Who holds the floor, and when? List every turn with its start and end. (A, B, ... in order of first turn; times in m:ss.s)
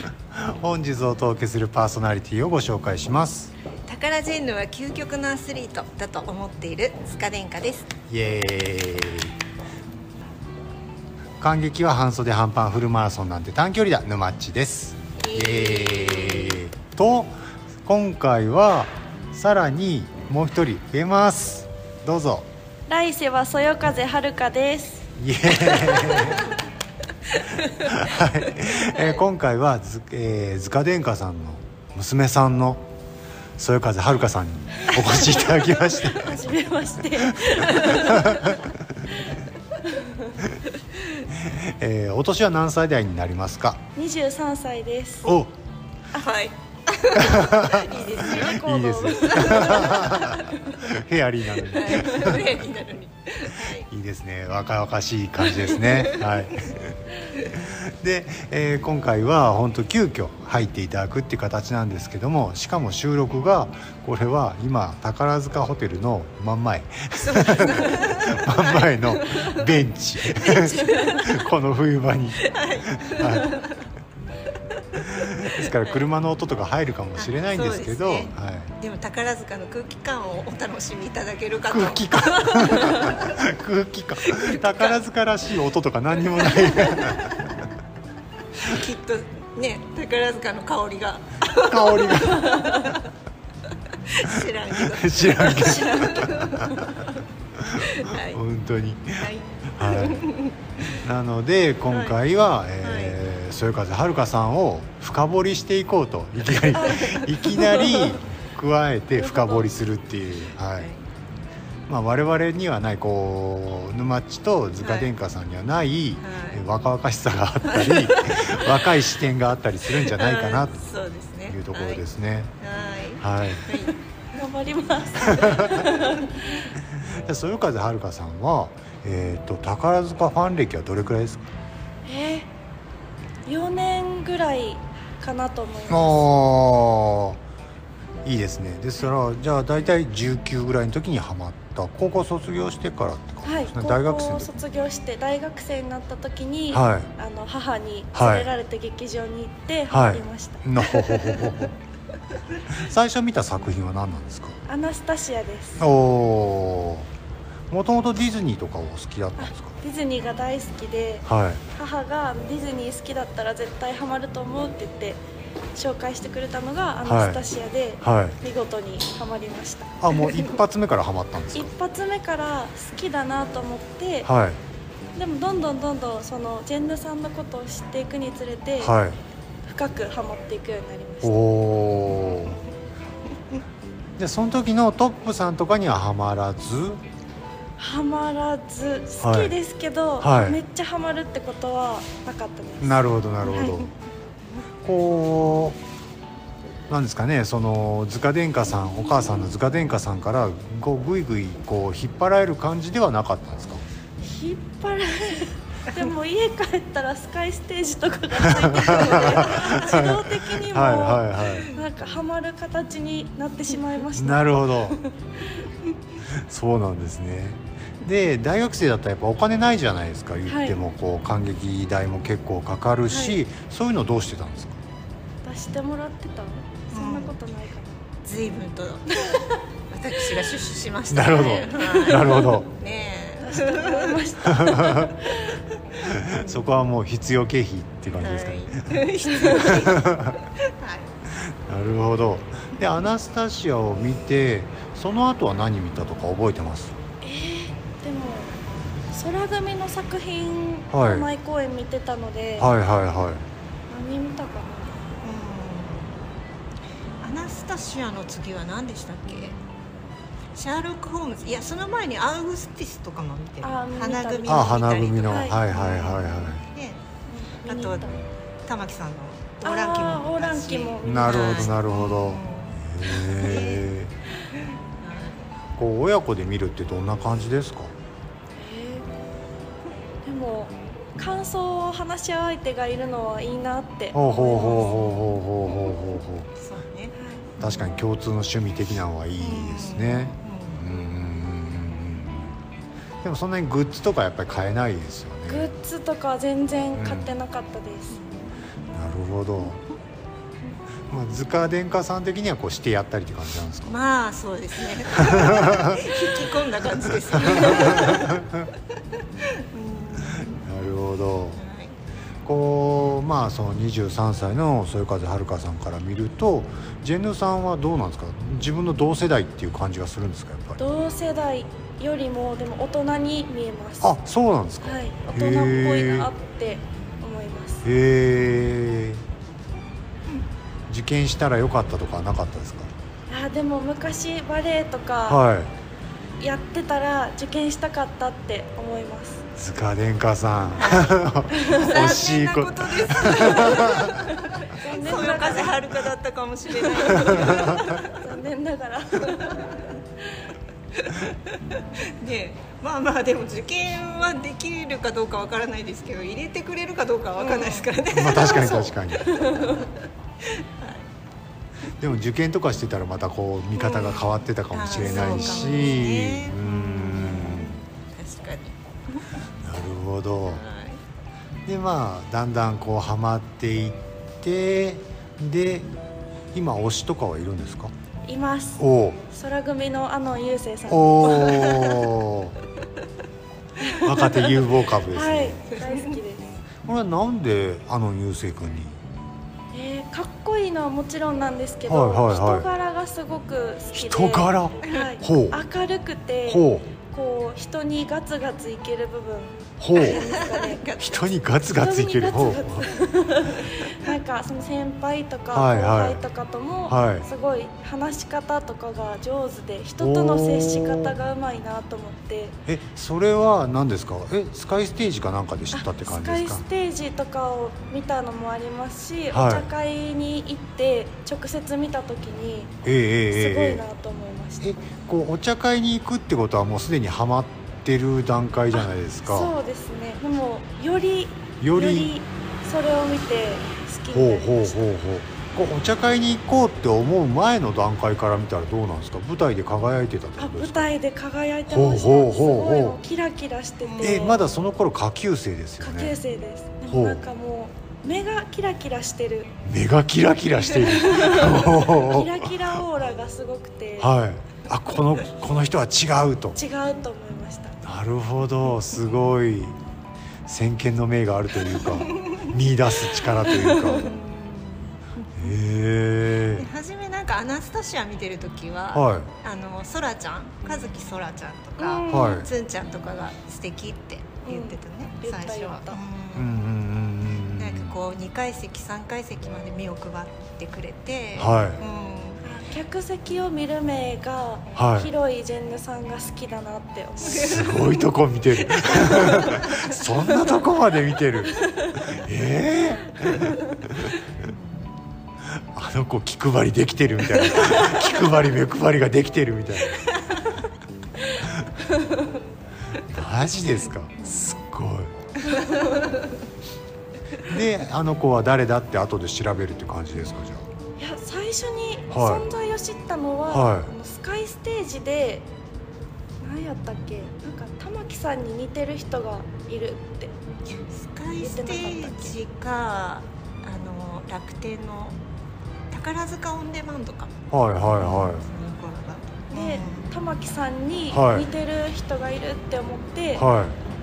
0:00.3-0:03.5 A
0:03.9-0:07.9 B
0:08.1-0:09.4 A
0:11.4-0:22.5 A
0:15.2-0:16.6 B
0:22.9-0:25.1 C
0:25.2-0:26.5 A
0:25.5-0:26.6 B
0:27.3-0:28.2 B
0:27.8-0:32.8 A
0:28.8-0:29.1 B
0:33.6-0:36.4 A
0:34.8-0:35.3 C
0:36.0-0:40.4 C
0:37.4-0:38.7 A
0:41.4-0:43.8 A
0:44.0-0:45.3 C
0:45.2-0:45.5 A
0:46.2-0:48.5 B
0:47.2-0:52.5 A
0:48.1-0:50.7 C
0:49.2-0:50.2 B
0:51.6-0:53.9 B
0:53.8-1:13.6 A
0:55.4-0:56.7 B
1:07.2-1:11.5 B
1:12.4-1:13.9 B
1:14.9-1:16.0 B
1:15.1-1:18.7 A
1:17.2-1:23.4 B
1:21.7-1:27.4 A
1:24.2-1:25.0 B
1:26.2-1:27.4 B
1:28.6-1:33.1 B
1:31.7-1:32.8 A
1:34.1-1:36.7 B
1:34.9-1:36.5 A
1:35.8-1:36.3 C
1:37.6-1:40.2 A
1:37.8-1:38.4 B
1:39.2-1:40.9 B
1:41.0-1:50.9 A
1:41.9-1:42.2 B
1:42.8-1:43.2 B
1:46.7-1:48.2 B
1:49.2-1:49.7 C
1:50.8-1:51.1 B
1:51.9-2:00.8 A
1:54.8-1:55.1 B
1:56.2-1:56.6 B
1:57.7-1:59.0 B
1:59.9-2:02.0 B
2:01.5-2:02.5 A
2:02.6-2:04.0 B
2:03.2-2:03.9 A
2:04.3-2:06.7 C
2:05.3-2:05.8 A
2:06.8-2:11.5 A
2:12.0-2:12.5 C
2:13.4-2:16.3 C
2:15.9-2:17.4 A
2:18.2-2:24.6 A
2:23.4-2:30.6 C
2:26.7-2:27.1 A
2:28.1-2:28.5 A
2:29.9-2:31.7 A
2:31.0-2:31.6 B
2:32.7-2:34.6 A
2:34.7-2:35.8 C
2:35.8-2:37.1 A
2:37.7-2:39.8 A
2:39.4-2:45.2 C
2:41.3-2:41.6 A
2:45.7-2:50.0 C
2:47.0-2:47.4 A
2:48.0-2:48.4 A
2:50.0-2:51.7 A
2:51.5-2:54.3 C
2:54.2-2:54.6 A
2:55.2-2:59.0 C
2:58.8-2:59.2 A
2:59.7-3:01.4 C
3:01.2-3:02.6 A
3:04.2-3:07.0 A
3:07.8-3:13.9 C
3:09.2-3:09.6 A
3:10.2-3:10.6 A
3:12.8-3:13.9 A
3:14.8-3:15.8 A
3:16.9-3:23.8 A
3:24.2-3:35.2 C
3:28.4-3:31.7 A
3:29.1-3:30.0 B
3:31.5-3:31.8 B
3:34.2-3:35.0 A
3:36.3-3:44.8 A
3:40.5-3:40.8 C
3:43.1-3:43.4 C
3:45.4-3:48.0 C
3:46.9-3:47.4 B
3:48.2-3:54.3 B
3:51.1-3:52.7 A
3:51.5-3:52.6 C
3:53.4-3:55.6 C
3:54.6-3:55.1 A
3:56.2-4:00.4 A
3:58.1-4:00.1 B
4:00.8-4:01.1 B
4:01.5-4:07.0 A
4:07.2-4:08.5 C
4:09.1-4:12.7 C
4:10.9-4:11.3 A
4:12.6-4:13.4 A
4:13.9-4:15.0 C
4:15.2-4:16.2 B
4:17.2-4:19.6 B
4:20.6-4:27.0 B
4:23.6-4:25.6 C
4:24.5-4:26.7 A
4:27.3-4:28.2 C
4:27.7-4:33.9 B
4:29.6-4:31.7 C
4:31.0-4:34.1 A
4:35.0-4:35.6 B
4:35.8-4:37.9 A
4:38.6-4:39.1 C
4:40.2-4:45.1 C
4:44.1-4:46.5 A
4:44.5-4:45.3 B
4:46.6-4:47.3 B
4:47.2-4:47.4 C
4:47.6-4:52.6 A
4:49.4-4:50.8 B
4:53.2-4:55.7 A
4:55.5-4:58.2 C
4:56.9-4:57.3 A
4:58.1-4:58.6 B
4:58.9-4:59.8 A
5:01.1-5:04.0 A
5:03.8-5:08.4 B
5:05.2-5:06.0 A
5:07.4-5:08.7 A
5:09.4-5:10.6 B
5:10.6-5:11.6 A
5:11.6-5:12.0 B
5:12.4-5:20.8 A
5:20.8-5:24.2 C
5:24.0-5:26.3 A
5:24.8-5:27.9 C
5:27.8-5:29.2 A
5:30.9-5:32.9 A
5:33.3-5:35.4 C
5:35.3-5:35.7 A
5:36.4-5:39.4 C
5:39.6-5:44.1 A
5:40.8-5:41.2 B
5:41.5-5:42.2 C
5:41.7-5:48.0 B
5:44.5-5:45.8 C
5:46.8-5:49.8 C
5:49.3-5:49.8 B
5:51.0-6:00.0 B
5:57.4-5:57.9 C
5:58.1-5:59.4 A
6:00.8-6:01.1 B
6:02.0-6:07.8 A
6:03.8-6:09.3 B
6:05.0-6:05.8 C
6:09.6-6:10.6 A
6:10.5-6:11.0 B
6:11.7-6:15.9 A
6:16.5-6:17.9 A
6:18.3-6:21.6 C
6:18.8-6:19.2 A
6:20.9-6:22.6 A
6:21.3-6:22.1 B
6:23.8-6:26.5 C
6:23.9-6:25.6 A
6:25.8-6:26.1 B
6:26.9-6:29.0 A
6:29.7-6:40.8 C
6:31.9-6:32.7 A
6:33.9-6:35.6 A
6:36.5-6:36.9 A
6:39.8-6:40.2 A
6:40.0-6:41.4 B
6:41.0-6:42.8 A
6:41.7-6:52.6 C
6:45.5-6:46.2 A
6:46.9-6:47.3 A
6:50.0-6:51.2 A
6:52.7-6:56.6 A
6:55.7-7:02.7 C
6:59.3-6:59.7 A
7:02.8-7:03.8 A
7:03.3-7:04.7 C
7:04.6-7:09.5 A
7:08.7-7:15.0 C
7:11.6-7:12.1 A
7:14.1-7:20.9 A
7:20.4-7:24.6 C
7:21.7-7:23.0 A
7:23.8-7:24.4 B
7:24.0-7:26.2 A
7:25.8-7:29.5 C
7:26.9-7:27.2 A
7:29.6-7:32.5 A
7:30.9-7:34.1 C
7:34.0-7:36.6 A
7:36.6-7:37.8 C
7:37.8-7:39.8 A
7:40.5-7:44.1 A
7:42.0-7:42.4 B
7:43.5-7:44.0 C
7:43.9-7:45.6 B
7:45.4-7:46.7 A
7:46.6-7:56.6 B
7:48.9-7:49.3 A
7:51.8-7:52.4 C
7:52.1-7:52.5 A
7:54.4-7:56.0 C
7:56.4-7:57.9 A
7:57.6-8:02.4 B
8:01.4-8:01.8 A
8:02.4-8:07.7 C
8:04.8-8:05.1 A
8:07.2-8:11.6 A
8:07.2-8:10.6 B
8:12.1-8:14.1 A
8:14.4-8:14.9 B
8:15.7-8:20.1 A
8:17.4-8:18.3 B
8:19.9-8:20.5 B
8:21.4-8:22.2 C
8:23.1-8:25.1 A
8:24.2-8:24.6 B
8:25.5-8:26.3 B
8:25.5-8:25.9 C
8:27.4-8:30.7 A
8:31.0-8:35.5 C
8:32.1-8:32.5 A
8:33.5-8:33.9 A
8:36.4-8:40.3 C
8:40.9-8:45.2 B
8:41.4-8:42.4 C
8:45.9-8:50.1 B
8:47.5-8:48.4 A
8:49.5-8:53.5 C
8:51.1-8:51.5 A
8:53.4-8:53.8 A